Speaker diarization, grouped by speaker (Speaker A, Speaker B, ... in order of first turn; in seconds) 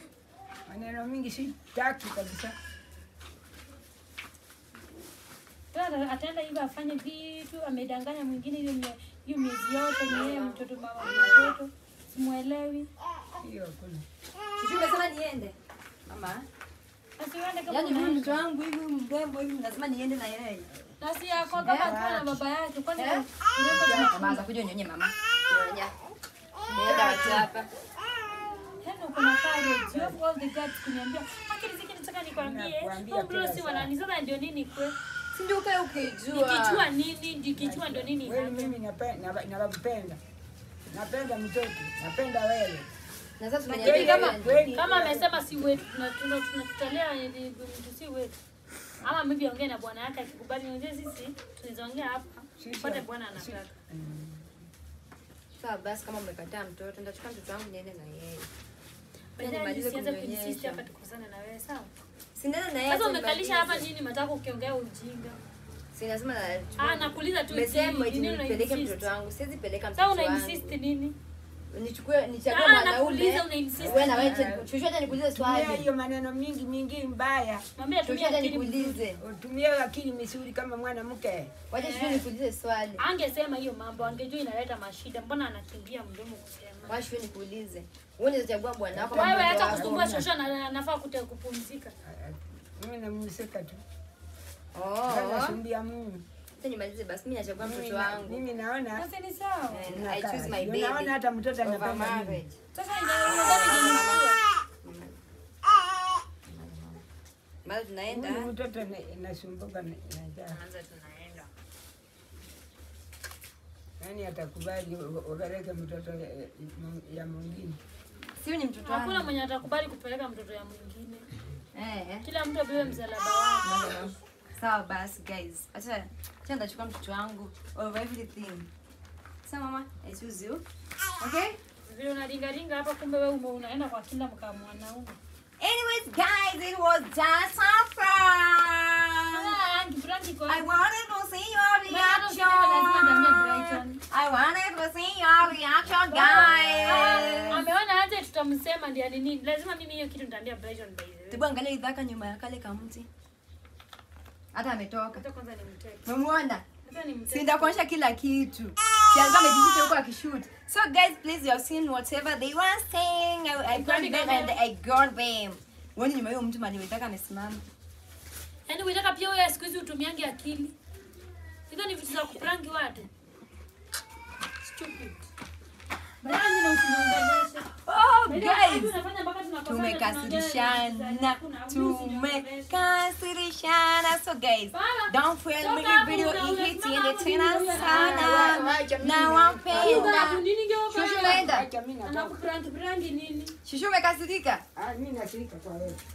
Speaker A: 0.7-2.5, 13.4-14.0, 21.4-22.3, 23.6-24.4, 26.7-27.5, 32.4-33.9, 37.5-40.2, 40.9-42.9, 43.7-45.8, 52.6-54.5, 73.8-74.7, 75.2-77.6, 79.2-81.6, 88.9-90.3, 92.0-93.8, 95.1-96.2, 97.6-99.0, 99.8-102.4, 108.1-110.6, 114.0-117.8, 187.7-190.2, 191.2-192.3, 194.7-196.0
Speaker B: 5.7-12.9, 17.2-18.4, 21.0-24.4, 28.8-34.9, 36.3-38.8, 43.7-48.4, 49.0-53.8, 59.4-61.9, 62.9-65.4, 66.8-69.1, 70.0-71.2, 72.5-74.5, 77.8-79.0, 81.7-82.3, 83.0-87.1, 89.1-91.9, 99.0-99.9, 102.7-104.4, 118.8-121.3, 122.2-124.1, 131.9-135.2, 139.3-140.7, 141.9-144.0, 146.1-151.4, 155.1-156.1, 156.8-157.8, 163.7-164.6, 168.7-170.7, 171.7-173.1, 174.6-175.3, 176.2-182.8, 184.7-188.7, 189.7-193.6
Speaker C: 10.1-11.6, 14.6-15.6, 16.1-16.5, 17.7-20.7, 21.6-22.4, 22.9-23.2, 23.9-25.9, 26.7-27.7, 35.3-36.9, 43.4-44.7, 55.6-58.5, 59.4-60.8, 62.3-63.9, 65.9-70.8, 71.7-75.9, 78.0-79.2, 81.7-83.0, 86.8-90.0, 94.7-95.6, 96.5-98.4, 99.7-102.6, 103.2-104.2, 104.8-105.2, 106.4-107.0, 107.6-108.5, 110.5-111.5, 118.3-119.3, 121.7-122.3, 123.6-128.7, 129.4-130.6, 131.2-131.6, 135.6-139.6, 140.5-147.7, 151.3-153.1, 154.5-155.2, 156.1-156.6, 157.3-167.6, 177.8-179.0, 179.7-191.7, 193.6-194.6